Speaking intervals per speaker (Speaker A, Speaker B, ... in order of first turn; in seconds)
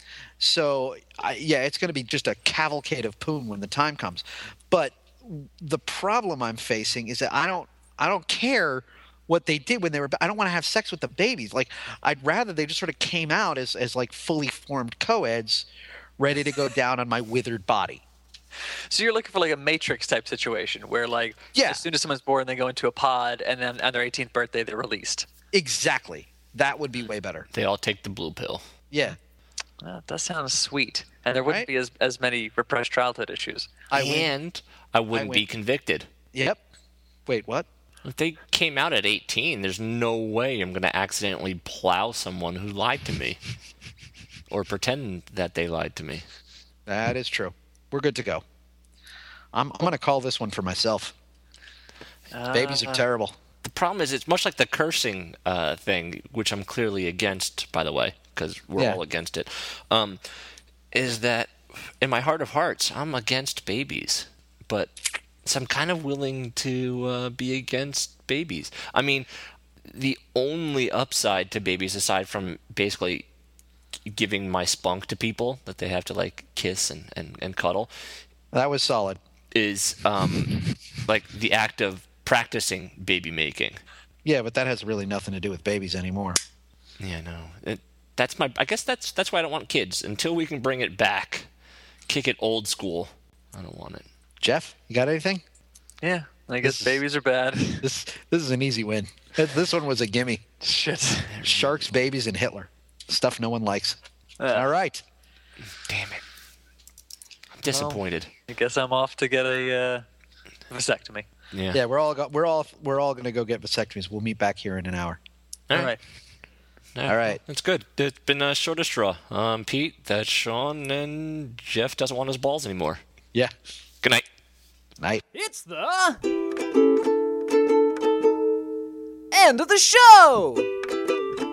Speaker A: 0.4-15.7, 16.2-18.0, 21.5-21.8, 25.5-27.5, 28.9-29.2, 33.9-34.3, 35.1-35.4, 36.3-36.6, 37.3-37.7, 46.9-48.4, 49.5-51.1, 52.5-53.3, 78.5-79.2, 84.2-86.4, 94.4-95.4, 96.6-97.0, 97.8-100.4, 101.4-104.0, 104.5-105.0, 111.7-115.2, 117.1-117.4
Speaker B: 18.9-25.3, 29.8-33.7, 52.3-53.0, 96.0-97.8, 100.6-101.4, 104.4-104.7, 107.7-110.0, 110.7-111.3, 115.7-116.0
Speaker C: 27.5-28.6, 33.9-36.1, 38.0-43.4, 44.5-46.2, 53.6-60.2, 60.9-69.3, 69.9-73.3, 74.1-77.9, 79.5-83.8, 87.0-91.5, 92.1-94.0, 101.3-101.9, 105.8-106.2, 107.5-108.3, 111.5-111.8, 115.7-116.0, 117.0-123.0
Speaker D: 125.3-126.2, 129.3-130.7